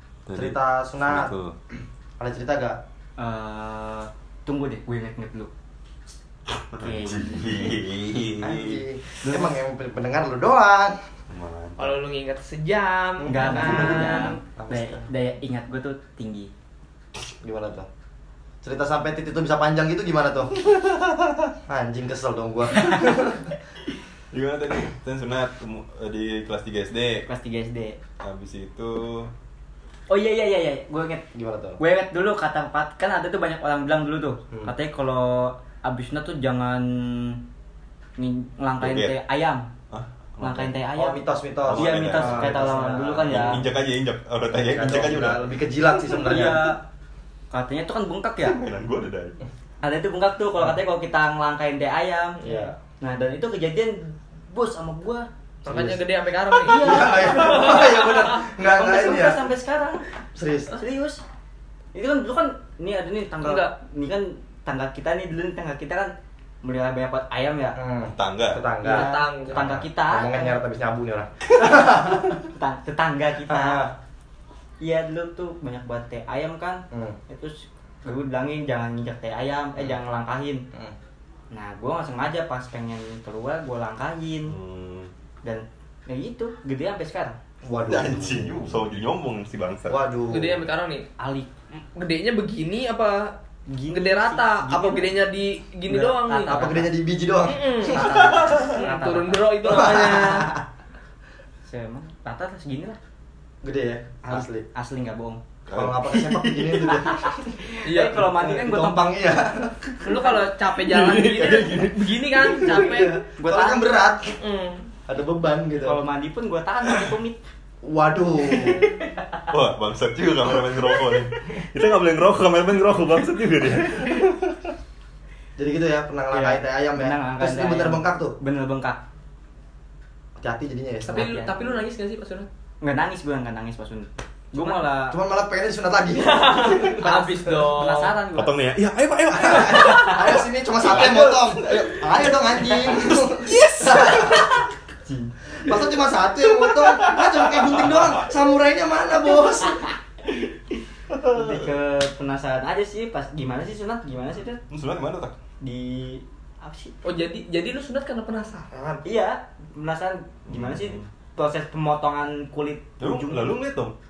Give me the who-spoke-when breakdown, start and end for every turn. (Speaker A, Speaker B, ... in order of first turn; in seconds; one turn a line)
Speaker A: 0.3-1.6
Speaker B: 0.3-1.3
Speaker B: 2.2-2.8
Speaker C: 3.2-5.5
Speaker A: 6.6-8.8
Speaker C: 6.8-7.4
Speaker B: 8.4-11.0
Speaker C: 9.2-9.6
Speaker A: 11.3-11.9
Speaker D: 11.8-14.4
Speaker B: 13.2-15.1
Speaker C: 13.3-16.5
Speaker B: 17.4-17.9
Speaker B: 18.6-20.5
Speaker A: 20.6-21.5
Speaker B: 21.7-23.5
Speaker A: 24.3-27.3
Speaker C: 27.3-28.0
Speaker A: 28.2-29.3
Speaker C: 30.1-31.2
Speaker B: 31.3-31.8
Speaker C: 31.8-37.4
Speaker C: 38.2-39.7
Speaker A: 38.8-39.2
Speaker A: 39.9-40.7
Speaker C: 40.4-43.6
Speaker B: 41.0-43.6
Speaker A: 41.7-42.7
Speaker A: 43.2-45.5
Speaker B: 44.5-46.8
Speaker C: 46.1-46.8
Speaker A: 46.3-46.6
Speaker C: 47.5-48.6
Speaker A: 48.4-49.4
Speaker C: 49.8-55.3
Speaker B: 52.4-52.8
Speaker D: 55.6-58.4
Speaker B: 55.7-56.0
Speaker B: 56.6-59.4
Speaker C: 56.7-58.1
Speaker C: 58.6-60.0
Speaker B: 60.3-60.8
Speaker C: 60.7-61.2
Speaker C: 61.9-67.8
Speaker D: 63.4-63.8
Speaker B: 67.8-72.4
Speaker A: 68.1-68.6
Speaker C: 68.8-70.6
Speaker D: 68.8-69.7
Speaker C: 72.5-73.8
Speaker B: 73.5-73.9
Speaker C: 74.8-80.6
Speaker B: 76.9-77.2
Speaker C: 81.5-84.6
Speaker A: 84.5-85.1
Speaker C: 85.4-87.4
Speaker B: 87.6-88.8
Speaker A: 87.8-90.0
Speaker B: 89.9-90.6
Speaker D: 90.3-91.1
Speaker C: 91.2-91.5
Speaker D: 91.8-93.3
Speaker C: 93.7-95.1
Speaker D: 93.9-96.7
Speaker C: 95.9-96.9
Speaker B: 96.5-100.6
Speaker D: 97.5-100.5
Speaker A: 97.9-98.8
Speaker C: 98.8-99.2
Speaker C: 101.7-103.0
Speaker B: 103.6-104.7
Speaker C: 104.2-105.4
Speaker A: 105.7-106.2
Speaker B: 105.7-107.6
Speaker C: 106.1-109.3
Speaker D: 107.8-108.6
Speaker B: 108.2-110.2
Speaker D: 110.0-113.2
Speaker A: 110.9-112.6
Speaker C: 112.6-113.9
Speaker B: 112.7-114.4
Speaker D: 114.3-114.8
Speaker B: 115.1-116.0
Speaker C: 115.8-117.4
Speaker B: 117.8-118.9
Speaker C: 118.4-119.5
Speaker A: 119.5-124.7
Speaker C: 120.6-121.2
Speaker B: 125.6-128.4
Speaker C: 126.3-129.0
Speaker B: 130.4-131.3
Speaker C: 131.1-131.8
Speaker D: 131.1-132.5
Speaker C: 132.8-135.2
Speaker B: 135.1-137.1
Speaker D: 136.2-138.2
Speaker C: 136.6-138.6
Speaker A: 138.3-144.7
Speaker B: 139.4-144.7
Speaker C: 139.5-140.2
Speaker C: 145.1-145.3
Speaker B: 145.6-149.8
Speaker A: 146.4-148.3
Speaker C: 150.2-154.6
Speaker A: 151.1-151.7
Speaker A: 154.7-155.3
Speaker C: 155.6-156.9
Speaker D: 157.0-159.0
Speaker C: 159.0-163.6
Speaker A: 160.5-161.1
Speaker A: 163.0-163.9